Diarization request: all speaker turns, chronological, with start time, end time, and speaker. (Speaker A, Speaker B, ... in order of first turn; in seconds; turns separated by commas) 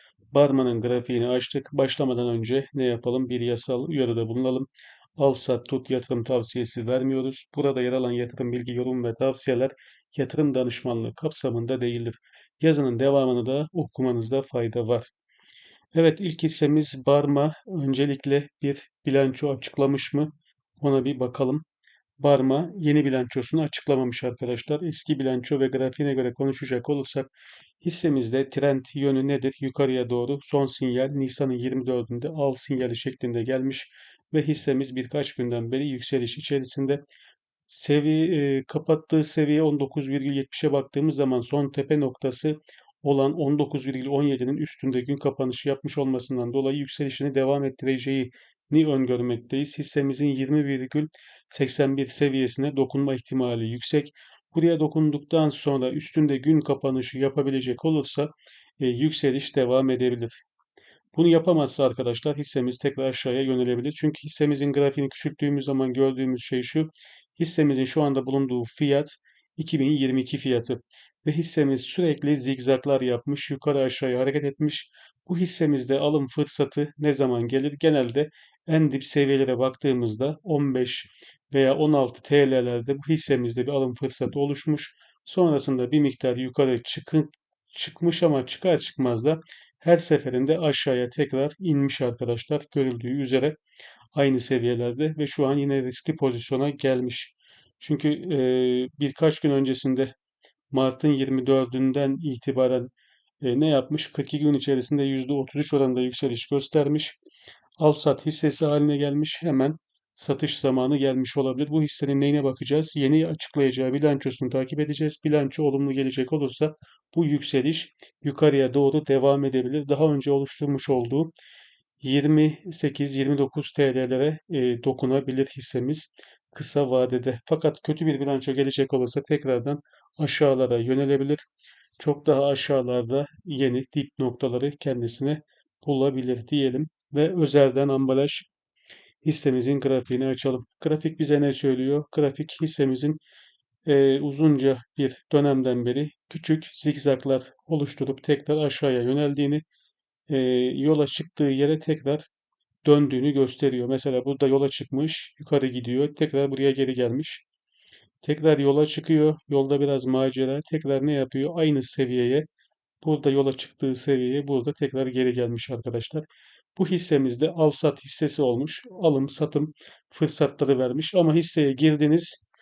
Speaker A: 0.3-15.1, Speaker A: 15.9-21.6, Speaker A: 22.2-27.3, Speaker A: 27.8-37.0, Speaker A: 37.7-60.4, Speaker A: 61.1-93.6, Speaker A: 94.1-100.1, Speaker A: 100.7-107.2, Speaker A: 107.8-121.3, Speaker A: 122.0-131.4, Speaker A: 132.0-138.5, Speaker A: 139.2-143.2, Speaker A: 143.9-149.6, Speaker A: 150.3-152.3, Speaker A: 152.8-157.4, Speaker A: 158.2-162.5, Speaker A: 163.0-166.2, Speaker A: 166.8-172.4